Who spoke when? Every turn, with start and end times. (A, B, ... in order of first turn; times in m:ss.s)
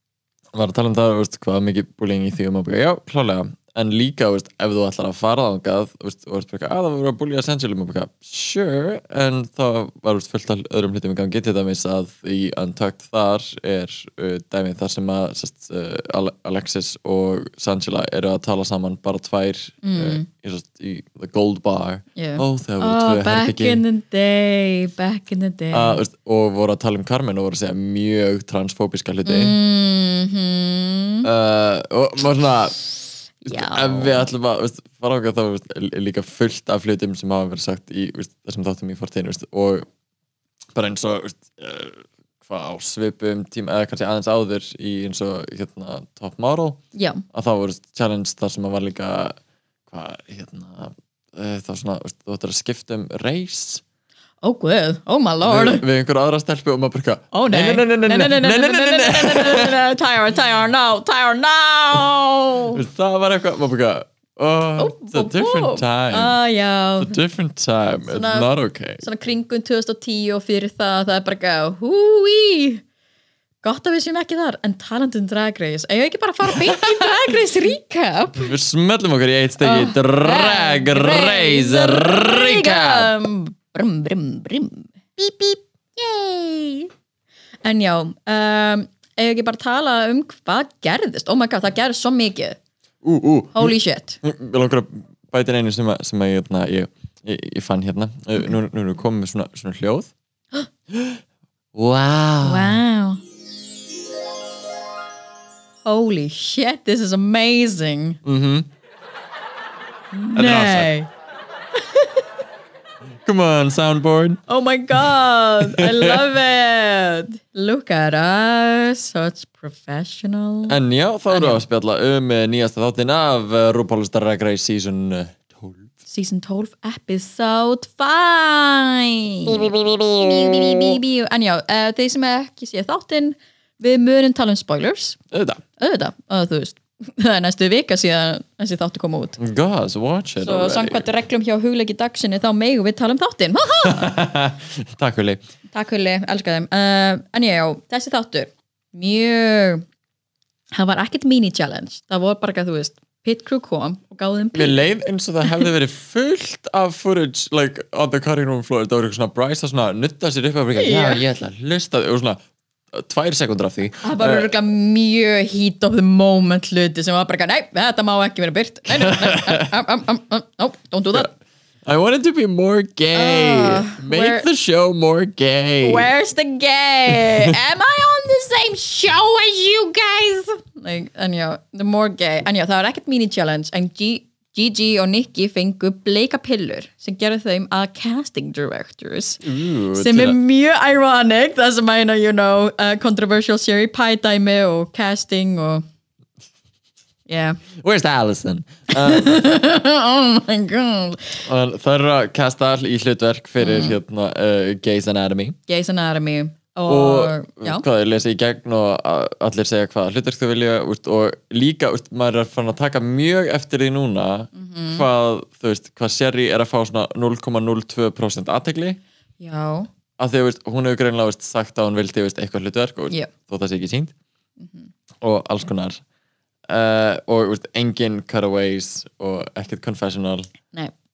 0:00.5-0:23.8 A
0:19.8-0:20.3 B
0:22.2-0:26.0 B
0:25.7-0:29.6 A
0:29.2-0:31.3 B
0:31.2-0:32.8 A
0:33.4-0:34.2 B
0:33.4-0:39.9 A
0:40.8-0:46.8 A
0:46.9-0:47.2 B
0:47.3-0:49.3 A
0:49.9-0:53.8 A
0:54.4-0:55.8 B
0:55.4-0:59.8 A
0:57.3-1:02.8 B
1:02.7-1:06.3 A
1:04.8-1:07.2 B
1:07.0-1:09.0 A
1:08.1-1:12.8 B
1:13.6-1:18.5 B
1:16.5-1:17.3 A
1:18.4-1:23.1 A
1:19.6-1:26.9 B
1:27.6-1:32.6 B
1:33.0-1:40.1 A
1:33.5-1:34.2 B
1:40.9-1:41.2 A
1:41.7-1:42.8 A
1:42.4-1:43.2 B
1:45.8-1:48.2 B
1:48.2-1:48.7 A
1:50.1-1:51.1 B
1:50.3-1:50.9 A
1:51.8-1:52.2 B
1:53.2-1:54.4 A
1:54.5-2:00.8 B
1:55.6-1:56.2 A
2:00.7-2:05.9 A
2:01.3-2:01.6 B
2:06.1-2:15.2 B
2:09.5-2:11.0 A
2:15.3-2:15.6 A
2:15.8-2:19.4 B
2:19.4-2:21.1 A
2:20.4-2:24.1 B
2:23.8-2:25.4 A
2:25.7-2:29.8 B
2:30.7-2:34.8 B
2:34.5-2:42.4 A
2:40.8-2:41.2 B
2:42.9-2:44.5 A
2:44.0-2:51.3 B
2:48.9-2:49.7 A
2:51.8-2:56.1 A
2:53.1-2:54.5 B
2:55.8-3:15.8 B
2:57.1-2:57.5 A
3:09.4-3:10.4 A
3:17.3-3:17.6 B
3:17.8-3:19.5 A
3:18.9-3:21.4 B
3:21.4-3:25.6 A
3:23.6-3:24.0 B
3:25.7-3:27.8 B
3:26.9-3:39.0 A
3:34.5-3:35.0 B
3:39.4-3:39.9 B
3:40.2-3:44.1 A
3:44.6-3:44.9 B
3:45.2-3:46.0 A
3:46.7-3:50.5 A